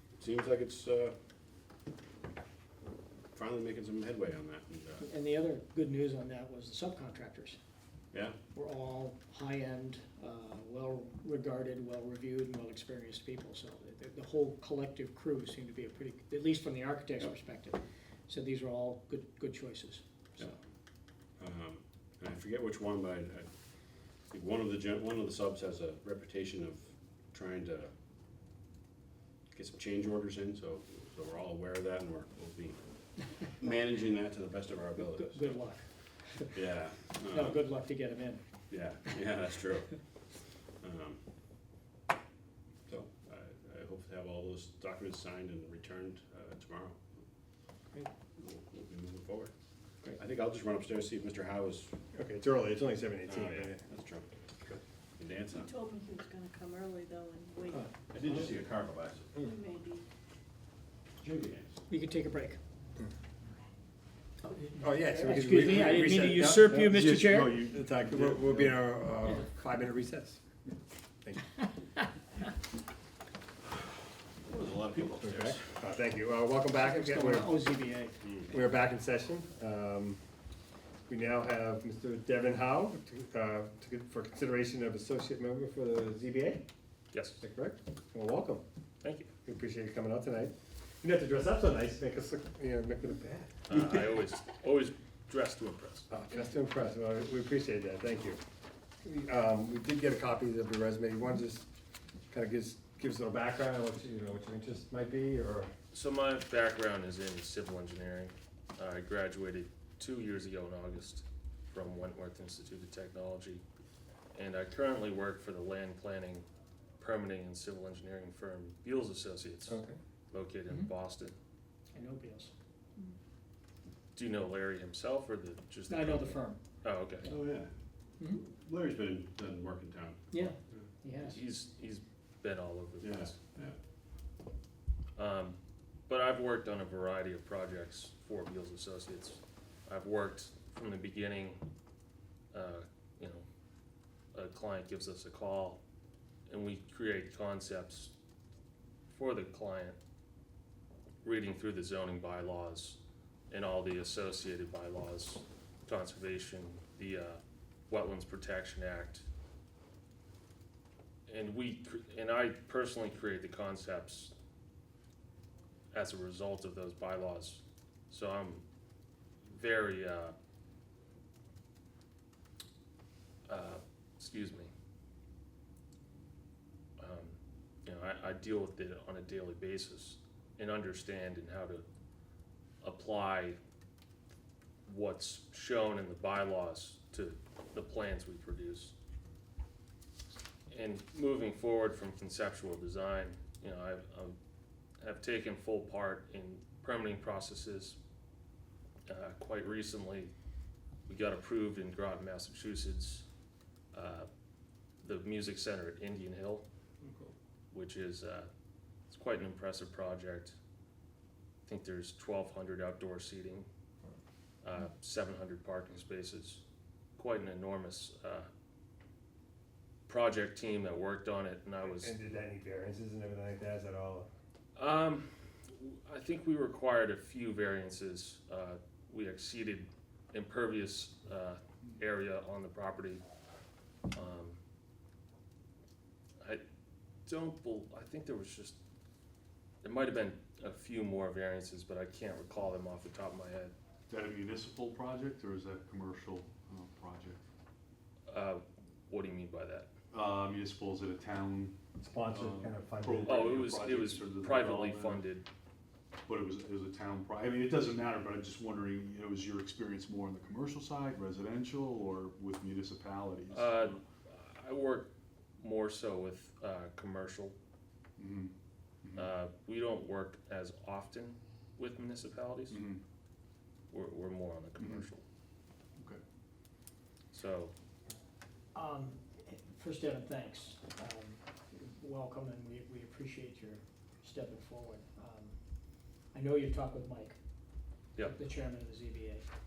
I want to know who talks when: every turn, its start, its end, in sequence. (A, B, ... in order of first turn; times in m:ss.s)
0:00.1-0:01.1 A
0:03.3-0:05.1 A
0:05.0-0:07.6 B
0:08.1-0:08.4 A
0:08.5-0:20.6 B
0:21.4-0:27.9 A
0:29.5-0:37.7 A
0:35.0-0:36.7 B
0:37.2-0:38.4 B
0:38.7-0:41.2 A
0:42.9-0:47.1 A
0:48.4-0:49.5 A
0:50.1-0:52.0 A
0:52.1-0:53.8 C
0:53.2-0:54.4 A
0:55.2-0:55.7 A
0:55.6-0:57.8 D
0:58.1-0:59.4 A
0:59.4-1:00.0 D
1:01.2-1:01.8 A
1:01.9-1:02.6 B
1:04.4-1:07.6 B
1:04.8-1:10.4 C
1:07.7-1:08.4 E
1:11.2-1:11.5 C
1:14.4-1:15.7 A
1:15.2-1:17.6 C
1:16.8-1:18.2 B
1:18.2-1:18.5 A
1:18.5-1:20.2 C
1:21.1-1:26.6 C
1:27.1-1:27.4 F
1:27.4-1:28.6 C
1:29.0-1:29.3 F
1:29.4-1:33.5 C
1:33.7-1:36.1 F
1:36.1-1:38.4 C
1:39.0-1:41.7 C
1:42.3-1:45.7 C
1:45.9-1:53.6 F
1:54.3-1:56.4 F
1:57.0-1:59.8 F
1:59.7-2:00.0 C
2:00.3-2:01.3 F
2:01.9-2:02.5 B
2:04.1-2:07.3 F
2:05.9-2:06.6 B
2:07.2-2:10.3 A
2:10.3-2:11.4 B
2:11.2-2:13.4 F
2:13.0-2:13.8 A
2:15.2-2:21.6 F
2:22.5-2:23.4 F
2:24.3-2:25.8 F
2:26.5-2:28.1 F
2:29.1-2:30.0 F
2:31.2-2:39.2 F
2:41.3-2:44.3 F
2:45.9-2:48.6 F
2:49.5-2:50.3 F
2:53.5-2:54.7 F
2:57.0-3:01.8 F
3:02.8-3:03.6 F
3:04.8-3:08.9 F
3:10.7-3:14.4 F
3:15.0-3:18.0 F
3:19.1-3:20.3 F
3:21.1-3:23.3 F
3:23.9-3:24.3 F
3:25.0-3:26.6 F
3:27.0-3:27.3 A
3:27.7-3:28.5 F
3:29.1-3:30.6 F
3:31.6-3:33.7 F
3:34.6-3:36.6 F
3:37.2-3:38.5 F
3:40.1-3:42.1 F
3:41.9-3:44.3 C
3:44.8-3:53.2 F
3:54.1-3:54.6 F
3:57.2-3:58.8 F
3:59.8-4:03.7 F
4:04.1-4:07.4 E
4:08.3-4:09.9 F
4:10.1-4:15.2 E
4:12.0-4:13.6 C
4:13.2-4:15.4 F
4:16.2-4:24.0 E
4:23.5-4:27.5 F
4:28.2-4:28.5 E
4:29.1-4:32.8 F
4:32.7-4:33.0 E
4:33.9-4:35.2 F
4:34.8-4:35.0 E
4:37.3-4:37.7 F
4:38.7-4:45.5 B
4:46.3-4:47.4 B
4:48.2-4:49.5 B